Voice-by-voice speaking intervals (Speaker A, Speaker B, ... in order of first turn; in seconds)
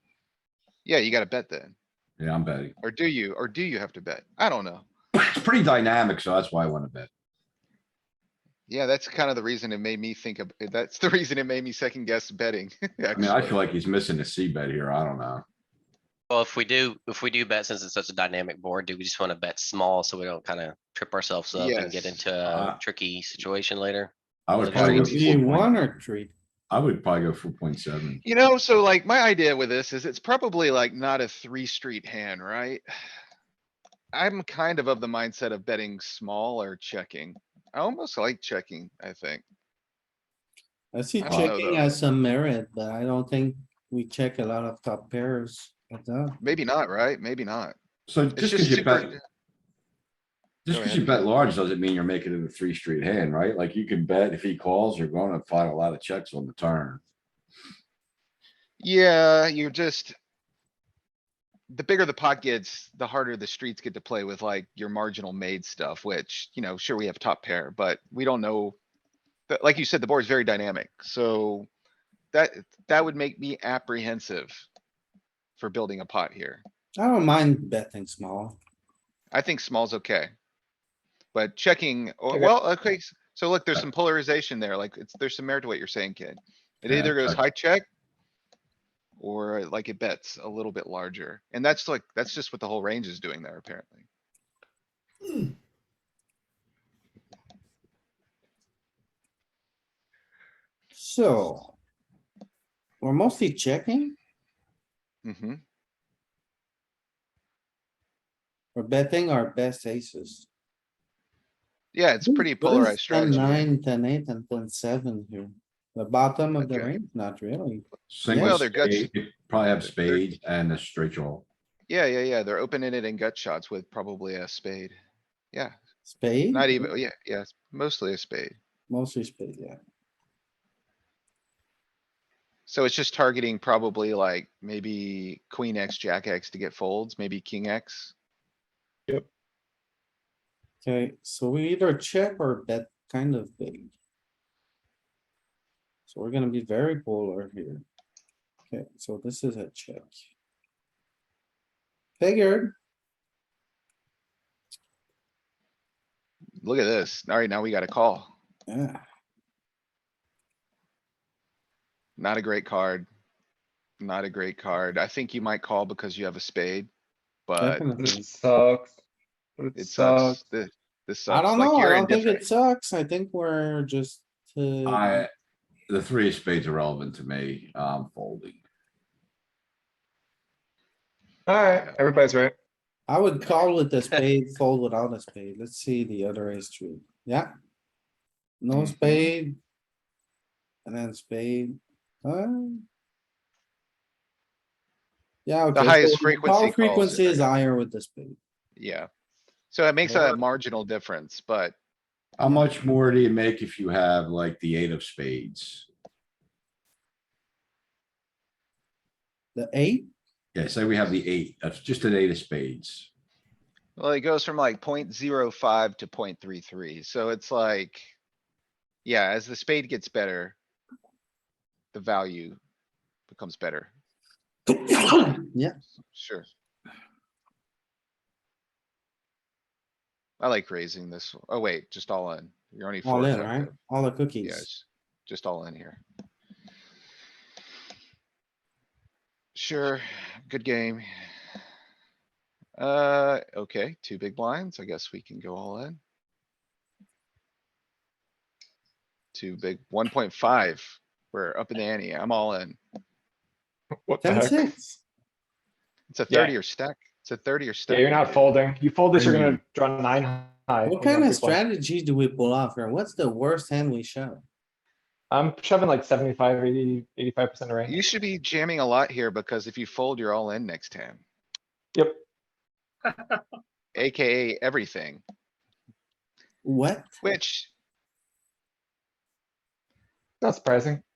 Speaker A: 0.8-1.8, 2.8-4.9, 8.7-13.6, 21.5-22.2, 28.2-32.9, 34.1-39.4, 41.2-42.0, 46.4-47.8, 48.4-49.2, 50.7-51.2, 58.8-60.2, 61.7-68.8, 69.5-71.7, 72.3-74.7, 75.6-76.6, 79.3-80.3, 81.3-87.9, 89.2-94.1, 105.2-105.6, 111.9-113.7, 116.6-116.9, 118.3-119.1, 119.8-120.2, 121.9-125.0, 126.5-128.6, 132.7-138.1, 156.6-158.3, 162.2-163.1, 164.0-166.9, 167.5-167.9, 169.8-172.4, 181.6-182.0, 188.7-189.3, 195.7-197.5, 198.8-199.1, 199.7-201.8, 214.0-218.1, 219.1-220.6, 221.9-222.6, 223.3-223.9, 226.1-226.5, 230.4-233.7, 234.4-236.0, 239.6-241.1, 242.8-246.0, 249.3-252.8, 256.1-258.5, 267.9-271.2, 273.9-275.2, 277.2-277.7
Speaker B: 2.2-2.8, 5.1-7.1, 13.1-15.4, 22.5-22.8, 24.5-25.9, 26.7-28.2, 48.1-49.1, 50.6-57.0, 86.9-87.4, 118.1-121.5, 174.8-175.3, 175.9-178.6, 202.4-205.9, 210.5-213.1
Speaker C: 16.3-25.2
Speaker D: 24.7-26.3, 40.9-46.4, 77.0-78.6, 101.0-101.8, 103.0-104.1, 108.8-110.5, 112.2-118.7, 126.1-126.9, 128.9-129.8, 140.8-143.9, 146.1-147.8, 148.7-150.2, 152.2-152.8, 158.7-159.0, 167.6-168.3, 171.3-175.2, 183.1-187.5, 188.6-189.6, 190.9-192.8, 195.5-198.4, 200.1-200.4, 209.6-210.1, 224.7-225.8, 233.0-234.7, 254.2-255.0, 260.9-264.4, 276.6-277.2
Speaker E: 168.0-169.0, 169.6-170.4, 181.5-182.5, 254.1-254.7, 256.3-256.6, 257.9-261.6, 265.3-268.0, 271.9-272.2, 280.4-281.0